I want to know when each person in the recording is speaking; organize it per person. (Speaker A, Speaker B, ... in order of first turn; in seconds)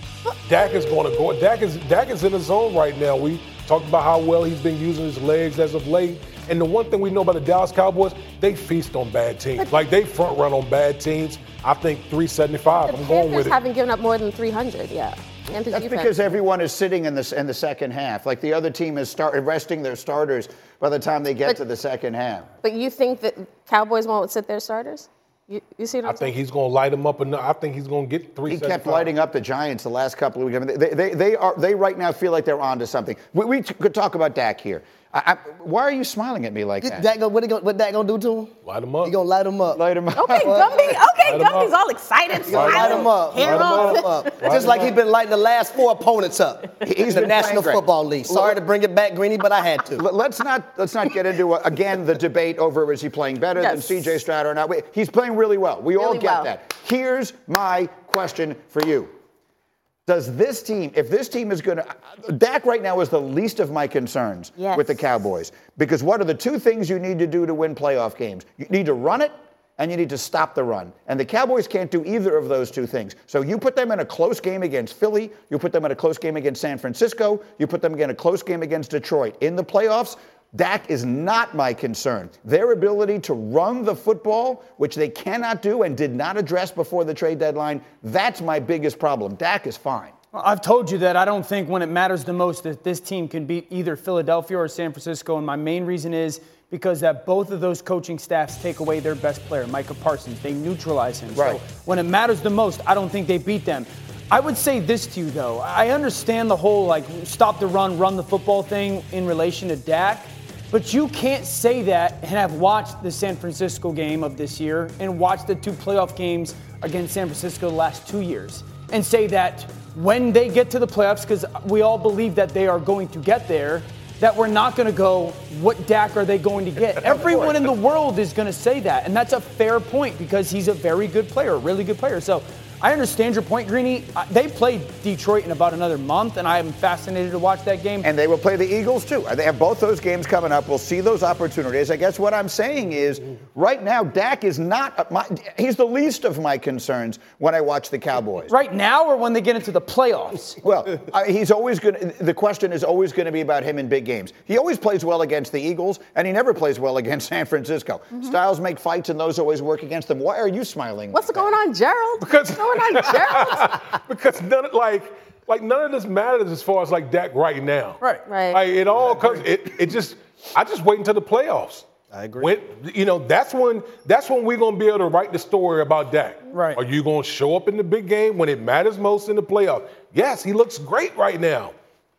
Speaker A: 0.5-13.6, 26.1-29.1, 38.6-39.1, 41.2-41.8, 42.4-45.0, 127.1-127.6, 162.2-168.0, 168.5-171.9, 172.4-181.7
Speaker B: 0.6-1.4, 9.6-9.9, 12.8-16.1, 22.6-26.3, 40.1-44.5, 53.6-54.0, 56.0-56.5, 64.6-65.0, 161.1-163.8, 168.3-168.7
Speaker C: 15.7-22.5, 28.5-37.1, 39.7-40.9, 46.8-48.6, 50.0-59.1, 60.1-90.1, 101.3-101.6, 138.0-148.5, 150.6-161.5
Speaker D: 36.8-40.8, 42.5-50.0, 169.0-169.4, 172.1-172.5
Speaker E: 90.3-138.1, 148.5-150.6, 176.5-176.8